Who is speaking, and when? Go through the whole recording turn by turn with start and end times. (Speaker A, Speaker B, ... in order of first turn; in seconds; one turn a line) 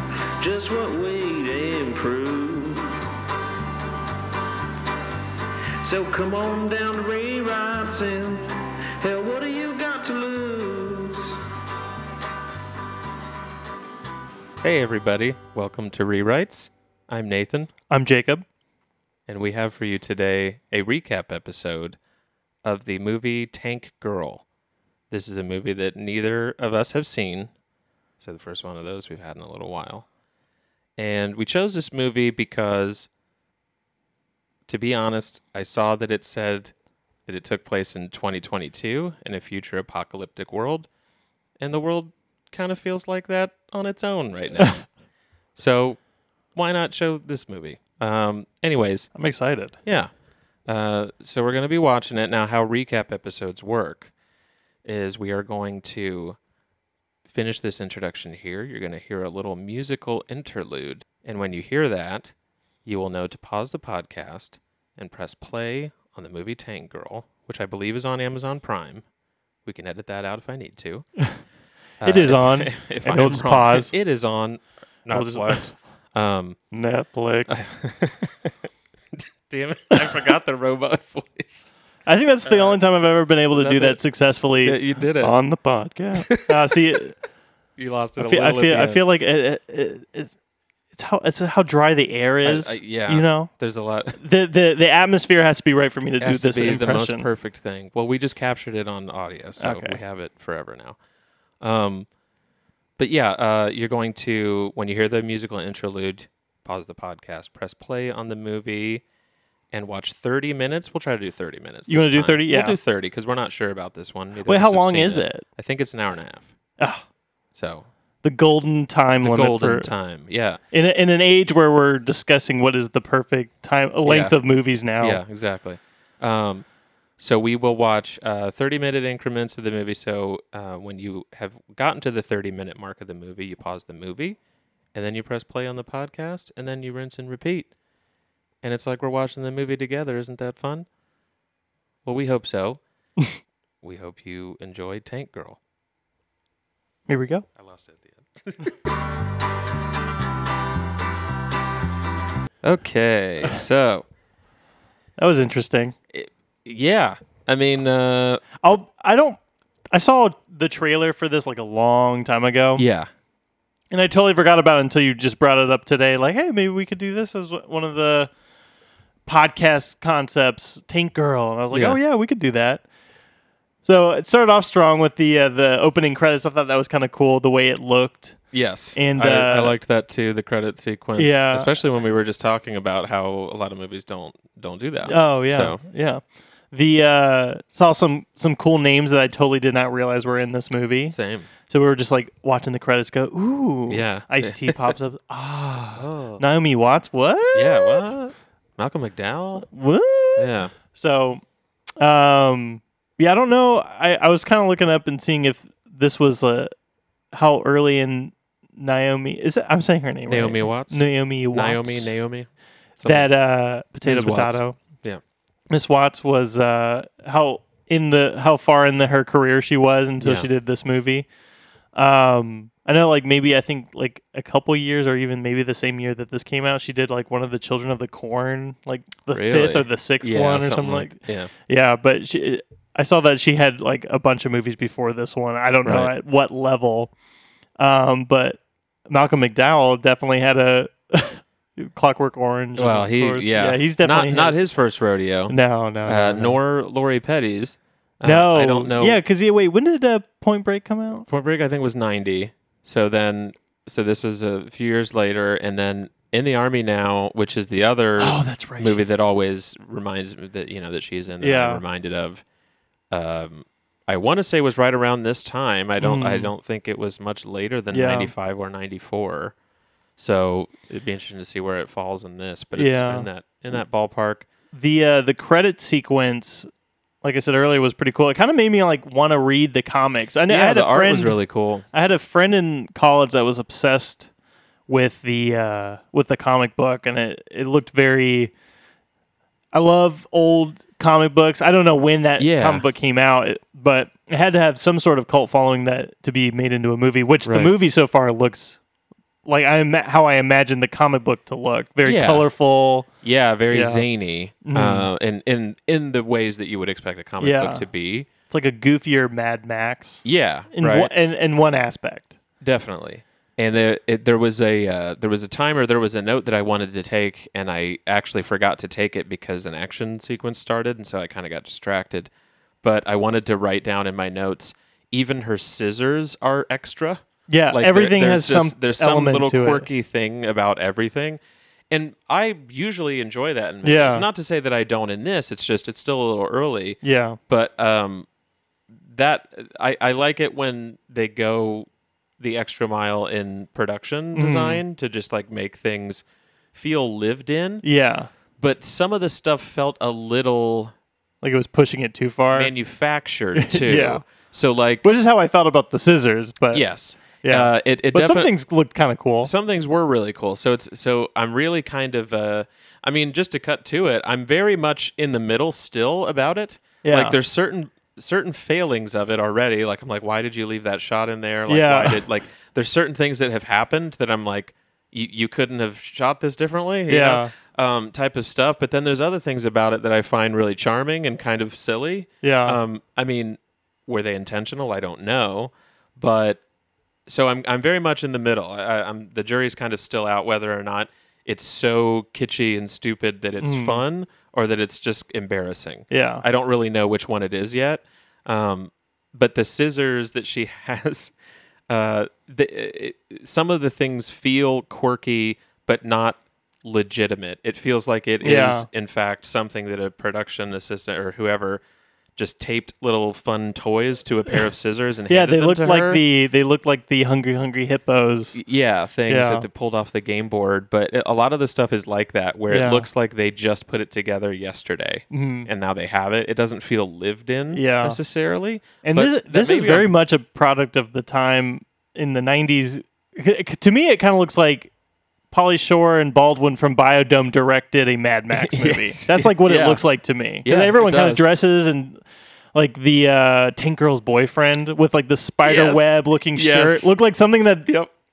Speaker A: 0.4-3.0
Speaker A: 5.8-11.4
Speaker B: 14.6-17.7
Speaker C: 17.9-18.4
Speaker B: 19.3-22.0
Speaker B: 22.6-24.4
Speaker B: 25.1-27.5
Speaker B: 28.2-30.1
Speaker B: 31.0-33.1
Speaker B: 34.7-36.7
Speaker B: 37.3-40.9
Speaker B: 41.6-44.8
Speaker B: 45.5-46.0
Speaker B: 46.5-49.1
Speaker C: 49.1-49.8
Speaker B: 49.9-50.1
Speaker B: 50.7-54.1
Speaker B: 54.9-56.4
Speaker B: 57.3-62.3
Speaker B: 62.9-69.0
Speaker B: 69.7-71.1
Speaker B: 72.0-76.6
Speaker C: 72.0-73.9
Speaker C: 75.1-75.8
Speaker C: 76.7-77.6
Speaker B: 77.5-78.5
Speaker B: 79.2-81.7
Speaker C: 82.1-87.2
Speaker B: 82.5-82.8
Speaker B: 83.5-84.0
Speaker B: 84.6-85.4
Speaker B: 86.2-86.7
Speaker B: 87.8-89.0
Speaker C: 88.2-90.4
Speaker C: 90.9-93.5
Speaker B: 92.4-94.2
Speaker C: 94.2-97.3
Speaker B: 96.2-101.0
Speaker C: 99.6-100.0
Speaker B: 101.6-102.1
Speaker B: 103.0-109.0
Speaker B: 109.7-116.5
Speaker C: 111.9-112.8
Speaker C: 114.5-115.5
Speaker C: 116.8-117.0
Speaker B: 117.5-117.9
Speaker C: 118.2-119.9
Speaker B: 119.2-120.6
Speaker C: 120.7-125.2
Speaker B: 124.1-124.3
Speaker B: 125.0-126.7
Speaker B: 127.2-134.4
Speaker B: 134.9-137.7
Speaker B: 138.6-140.9
Speaker B: 142.1-142.8
Speaker B: 143.8-145.6
Speaker C: 147.1-147.4
Speaker B: 147.6-148.8
Speaker B: 152.6-154.1
Speaker C: 155.2-155.9
Speaker B: 156.1-158.6
Speaker C: 158.6-159.4
Speaker C: 159.9-162.8
Speaker B: 162.8-163.1
Speaker C: 163.9-168.3
Speaker C: 169.3-172.8
Speaker B: 171.7-172.0
Speaker C: 173.8-178.4
Speaker B: 178.5-185.8
Speaker C: 179.0-179.8
Speaker C: 181.2-181.7
Speaker C: 185.1-191.2
Speaker B: 191.1-191.5
Speaker C: 191.7-198.1
Speaker B: 193.9-195.0
Speaker B: 196.0-196.4
Speaker B: 197.5-199.7
Speaker C: 199.6-201.4
Speaker B: 200.4-200.7
Speaker C: 202.0-206.7
Speaker C: 207.3-212.1
Speaker B: 210.3-213.3
Speaker C: 213.0-214.8
Speaker B: 214.0-215.2
Speaker C: 215.7-221.3
Speaker B: 220.2-220.5
Speaker C: 221.9-237.1
Speaker B: 229.3-231.5
Speaker B: 235.8-236.1
Speaker C: 237.8-244.6
Speaker B: 242.8-245.6
Speaker C: 245.5-246.6
Speaker B: 246.1-249.2
Speaker C: 248.2-251.3
Speaker B: 251.3-262.4
Speaker C: 258.2-259.1
Speaker C: 261.4-261.8
Speaker B: 263.1-269.6
Speaker C: 266.0-266.5
Speaker C: 267.9-268.3
Speaker B: 270.2-274.5
Speaker C: 272.8-273.3
Speaker C: 274.7-276.7
Speaker C: 277.2-281.4
Speaker B: 280.5-281.9
Speaker C: 281.9-284.3
Speaker C: 284.9-288.5
Speaker C: 289.7-298.8
Speaker B: 292.4-292.8
Speaker B: 297.4-297.7
Speaker C: 299.5-303.1
Speaker B: 302.1-302.5
Speaker B: 303.2-308.3
Speaker C: 303.7-304.1
Speaker C: 304.6-305.1
Speaker C: 307.4-307.9
Speaker C: 308.5-312.4
Speaker B: 310.2-311.1
Speaker B: 312.6-322.3
Speaker B: 322.8-338.3
Speaker C: 327.5-329.9
Speaker C: 333.8-334.2
Speaker C: 337.0-337.4
Speaker B: 339.0-341.9
Speaker B: 342.4-347.9
Speaker C: 344.4-344.8
Speaker C: 347.8-348.3
Speaker B: 348.6-350.9
Speaker C: 351.4-352.7
Speaker B: 352.5-355.1
Speaker C: 353.6-354.2
Speaker C: 355.0-359.5
Speaker B: 356.7-358.5
Speaker B: 359.4-386.6
Speaker C: 367.0-367.4
Speaker C: 371.7-372.2
Speaker C: 377.1-377.5
Speaker C: 382.4-382.8
Speaker B: 387.3-401.3
Speaker C: 393.6-394.0
Speaker C: 396.1-396.4
Speaker B: 401.9-411.8
Speaker C: 408.4-408.9
Speaker B: 412.4-416.2
Speaker C: 415.3-418.6
Speaker B: 418.5-430.1
Speaker C: 419.3-419.6
Speaker C: 422.7-423.1
Speaker C: 425.3-425.7
Speaker C: 427.7-428.2
Speaker C: 429.0-434.9
Speaker C: 435.5-442.2
Speaker B: 438.5-440.0
Speaker B: 440.6-441.5
Speaker C: 442.8-447.9
Speaker B: 445.6-447.1